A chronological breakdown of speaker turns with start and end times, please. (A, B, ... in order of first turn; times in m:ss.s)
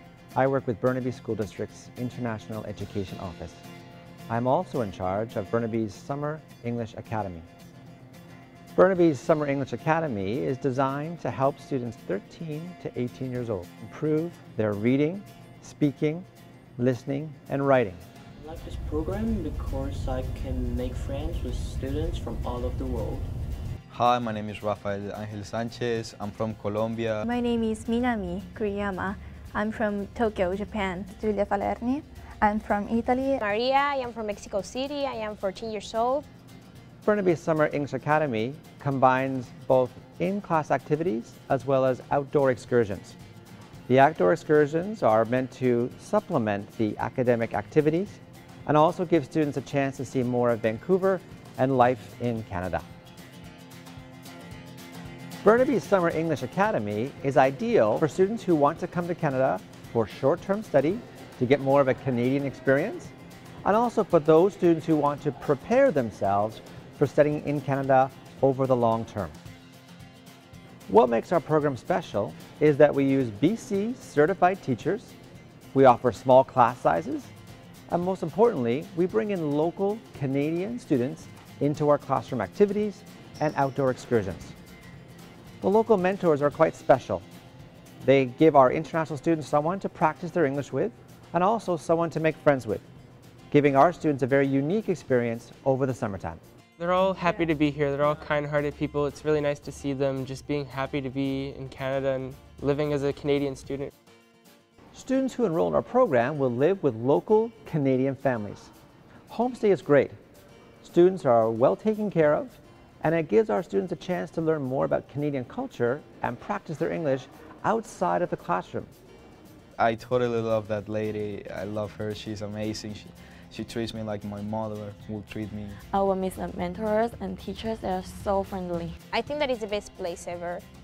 0:00.3-0:03.6 A
0:04.3-0:07.5 A
0:08.8-0:16.2 A
0:16.8-0:18.0 A
0:18.4-0:23.3 B
0:23.9-0:27.2 C
0:27.2-0:31.1 D
0:31.1-0:33.4 E
0:33.4-0:36.2 F
0:37.0-0:43.2 A
0:43.9-0:52.8 A
0:55.4-1:03.1 A
1:03.6-1:09.4 A
1:10.9-1:15.2 A
1:15.7-1:17.3 A
1:17.9-1:24.5 A
1:25.6-1:27.2 A
1:28.0-1:32.8 A
1:33.5-1:36.4 A
1:36.8-1:43.9 G
1:44.9-1:48.7 A
1:49.3-1:50.1 A
1:50.8-1:58.9 A
1:59.8-2:05.8 C
2:05.9-2:09.0 H
2:09.1-2:10.6 F